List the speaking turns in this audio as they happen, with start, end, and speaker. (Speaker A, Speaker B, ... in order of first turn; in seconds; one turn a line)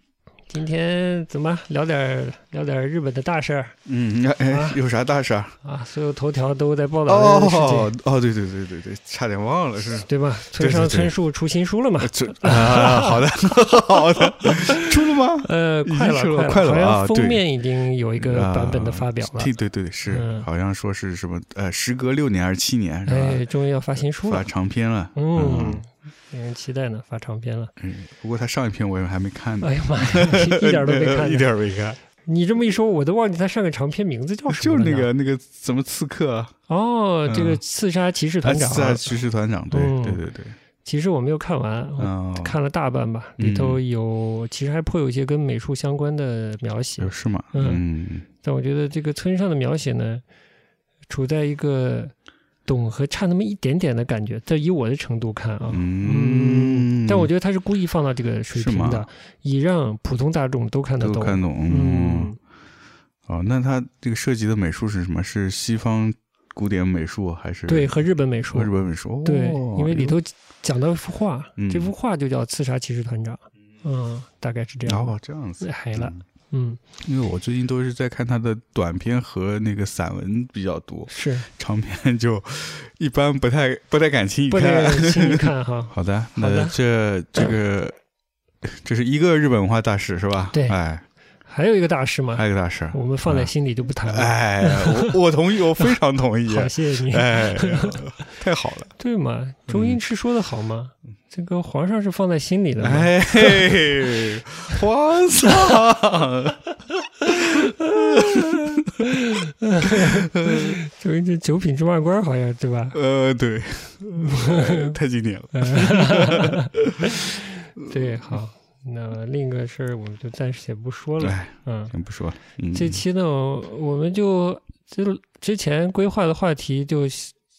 Speaker A: 0.5-3.8
Speaker B: 3.9-5.5
Speaker A: 4.5-4.8
Speaker A: 5.6-7.9
Speaker B: 7.1-11.1
Speaker A: 9.9-13.2
Speaker B: 12.0-17.4
Speaker A: 14.3-19.5
Speaker B: 18.2-23.4
Speaker A: 20.0-20.5
Speaker A: 23.1-24.5
Speaker B: 24.2-25.8
Speaker A: 25.1-27.7
Speaker B: 27.8-32.0
Speaker A: 29.6-31.5
Speaker A: 32.2-35.1
Speaker B: 34.5-36.5
Speaker A: 36.7-40.2
Speaker B: 37.2-37.6
Speaker B: 38.4-40.6
Speaker A: 40.8-47.8
Speaker B: 42.0-42.5
Speaker B: 43.4-43.8
Speaker B: 47.0-48.2
Speaker A: 48.4-50.2
Speaker A: 51.1-52.1
Speaker A: 52.6-62.4
Speaker B: 55.7-57.3
Speaker B: 58.5-59.1
Speaker B: 61.0-62.3
Speaker B: 63.3-70.2
Speaker A: 67.7-68.7
Speaker A: 69.2-76.8
Speaker B: 71.6-71.9
Speaker B: 74.8-76.2
Speaker B: 77.0-87.9
Speaker A: 81.1-81.5
Speaker A: 84.5-86.7
Speaker B: 88.6-91.0
Speaker A: 90.5-90.8
Speaker A: 91.5-95.2
Speaker B: 92.3-93.5
Speaker B: 94.0-98.9
Speaker A: 95.8-98.0
Speaker A: 99.0-103.8
Speaker B: 99.7-100.0
Speaker B: 102.8-109.0
Speaker A: 107.3-113.0
Speaker B: 109.8-110.8
Speaker B: 112.9-118.1
Speaker A: 114.2-115.0
Speaker A: 115.5-121.9
Speaker B: 121.2-123.0
Speaker A: 122.7-127.3